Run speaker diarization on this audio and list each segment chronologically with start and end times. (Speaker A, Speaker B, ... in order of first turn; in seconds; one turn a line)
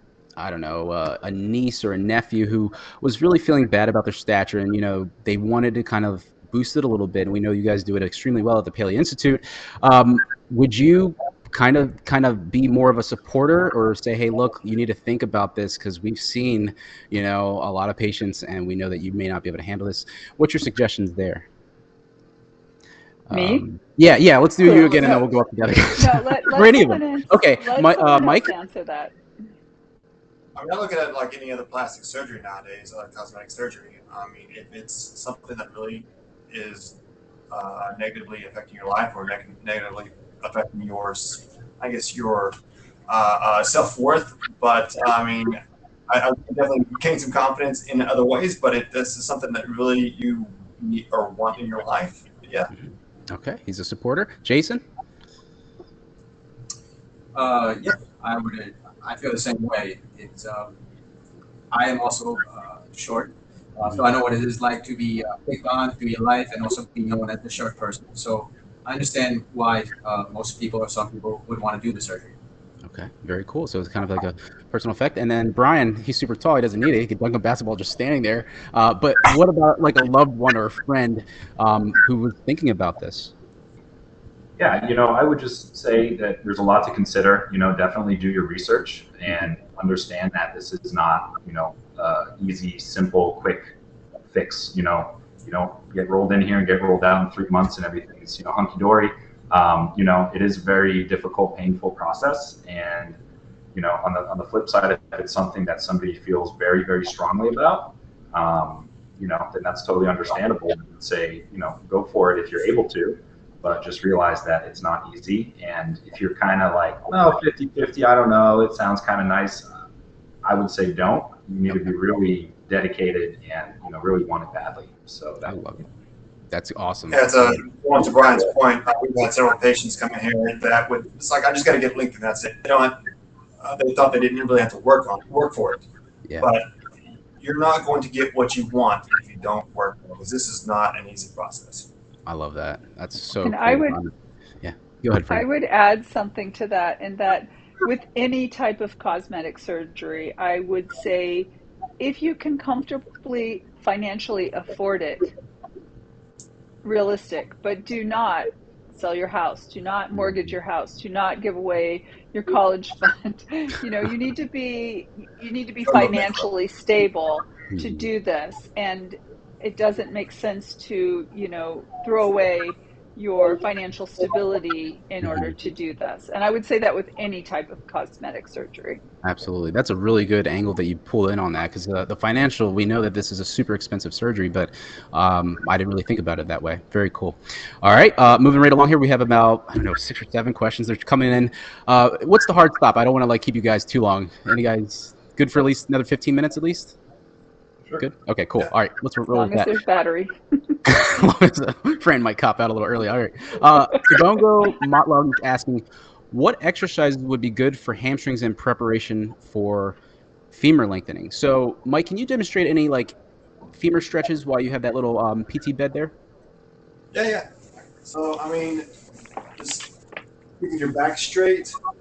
Speaker A: 0.4-21.5
Speaker A: 23.3-28.5
Speaker B: 23.3-23.6
Speaker B: 24.6-25.3
Speaker B: 25.9-29.1
Speaker C: 30.6-37.0
Speaker C: 37.5-42.5
Speaker C: 43.1-52.7
Speaker A: 53.3-54.8
Speaker D: 57.3-60.7
Speaker D: 61.7-72.3
Speaker A: 72.8-83.3
Speaker E: 84.6-93.7
Speaker E: 94.3-103.2
Speaker E: 103.7-119.8
Speaker E: 120.4-125.6
Speaker A: 125.5-125.8
Speaker A: 126.5-127.6
Speaker C: 127.1-133.0
Speaker C: 133.6-135.8
Speaker C: 136.4-136.7
Speaker C: 137.4-141.9
Speaker A: 142.3-145.5
Speaker B: 143.4-144.0
Speaker B: 145.3-155.3
Speaker B: 156.8-179.0
Speaker C: 165.9-166.3
Speaker A: 167.7-168.1
Speaker A: 175.2-175.5
Speaker A: 179.2-196.9
Speaker A: 198.0-199.7
Speaker B: 199.3-200.8
Speaker A: 200.8-210.0
Speaker A: 210.5-213.2
Speaker A: 213.7-216.1
Speaker C: 217.1-218.9
Speaker C: 219.6-219.9
Speaker C: 220.6-221.8